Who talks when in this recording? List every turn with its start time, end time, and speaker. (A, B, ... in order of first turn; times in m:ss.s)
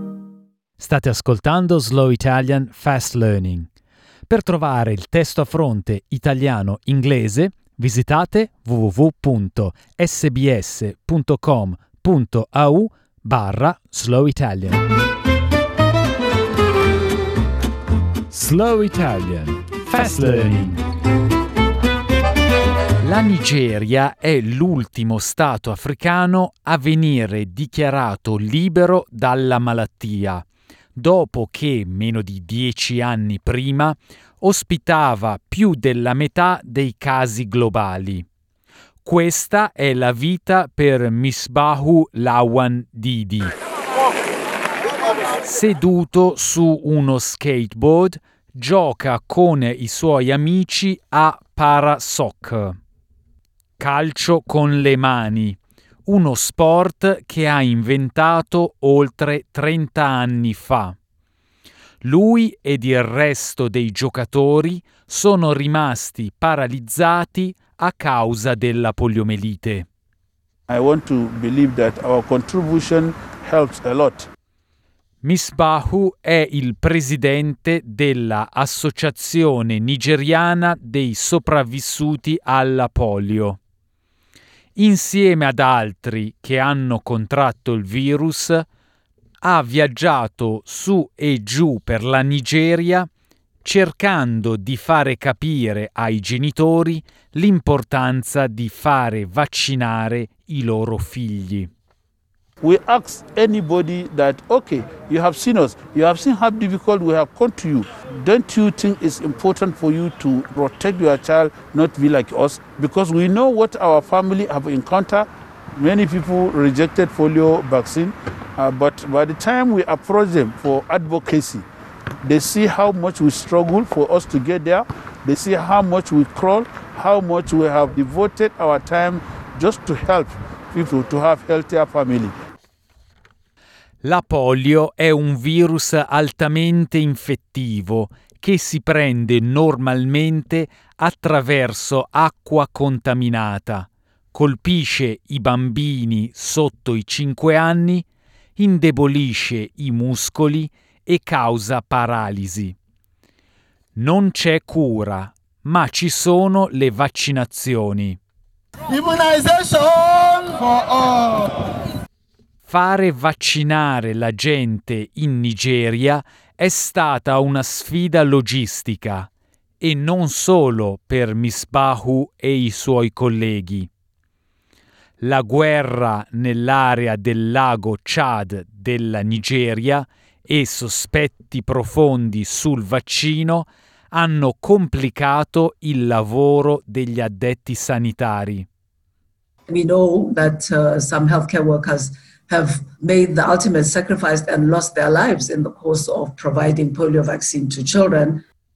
0:00.8-0:03.7 A
0:04.3-0:14.8 A
0:18.3-0:20.8 A
0:23.0-0:38.3 A
0:39.0-0:43.5 A
0:45.4-0:52.8 A
0:53.8-1:01.0 A
1:02.0-1:09.9 A
1:10.7-1:14.3 B
1:15.2-1:23.6 A
1:24.8-1:28.7 A
1:29.4-1:33.1 A
1:33.6-1:41.7 A
1:42.6-2:01.7 B
2:02.2-2:12.3 B
2:14.0-2:28.1 A
2:28.6-2:32.8 A
2:34.0-2:38.2 A
2:38.9-2:41.5 C
2:42.7-2:49.3 A
2:49.8-2:53.9 A
2:55.2-3:08.7 A
3:09.7-3:18.4 D